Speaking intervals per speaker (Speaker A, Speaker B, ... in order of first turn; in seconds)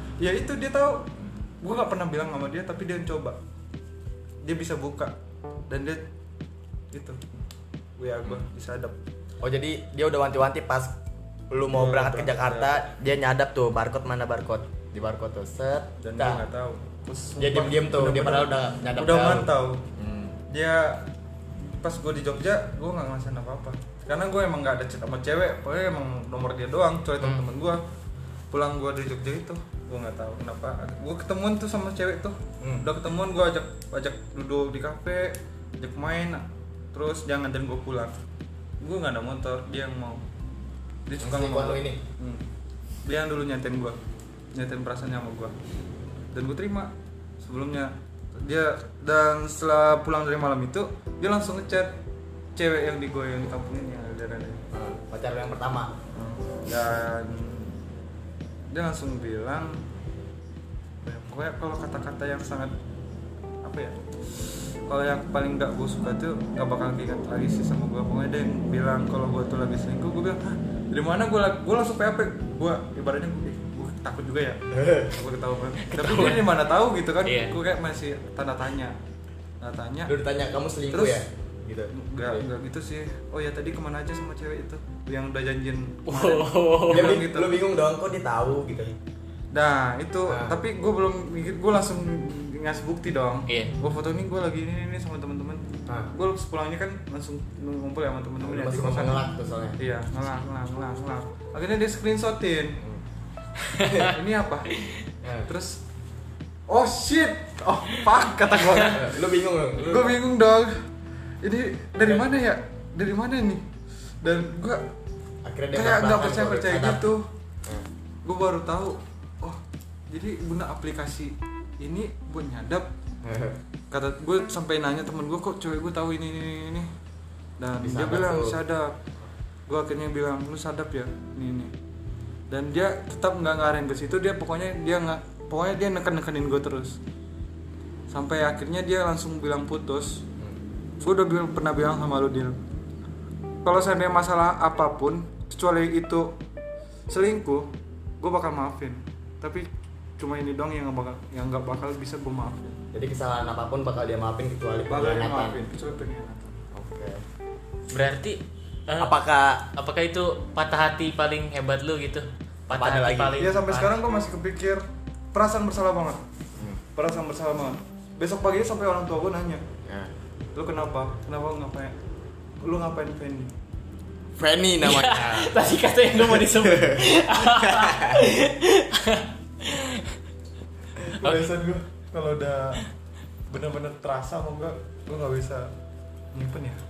Speaker A: 0.2-1.1, 1.6-3.4, 4.4-5.1, 5.7-6.0, 6.9-7.2, 8.0-9.0, 11.7-12.8, 16.0-19.8, 20.5-21.1, 21.8-27.8, 28.5-38.2, 38.8-40.2, 41.1-42.4, 43.0-44.0, 44.5-45.5, 46.3-51.9, 52.5-54.6, 56.1-57.7, 58.7-59.8, 61.0-62.7, 63.6-79.0, 79.6-80.1, 80.9-81.2, 81.9-87.6, 89.5-99.2, 99.8-102.8, 104.0-104.8, 105.5-105.8, 106.7-109.2, 109.8-110.8, 111.4-113.7, 114.2-114.9, 115.7-117.3, 118.2-122.9, 123.9-126.9, 127.6-128.9, 129.7-131.7, 132.5-137.0, 138.1-140.2, 141.0-142.6, 143.6-146.4, 147.1-149.7, 150.2-152.8, 154.9-156.5, 163.4-164.8, 165.3-166.2, 166.9-169.6, 170.5-171.9, 172.6-173.5, 181.0-182.8, 183.5-185.7, 186.3-186.8
Speaker B: 9.4-10.9, 11.5-16.4, 17.4-20.4, 32.6-32.9, 41.2-42.0, 54.7-55.9, 74.7-75.2, 80.1-82.5, 86.9-88.9, 90.3-90.6, 98.4-99.8, 105.2-105.5, 108.9-110.2, 115.4-117.0, 123.2-123.6, 127.8-128.6, 152.9-155.6, 156.7-157.2, 159.0-159.7, 162.7-163.4, 169.8-170.1, 174.3-175.6, 176.2-178.2
Speaker C: 27.2-27.4, 75.8-76.6, 77.2-77.5, 86.1-87.2, 93.5-93.7, 103.6-104.1, 104.7-105.0, 108.5-108.9, 157.9-159.2, 159.7-164.0, 174.8-180.2, 181.0-181.5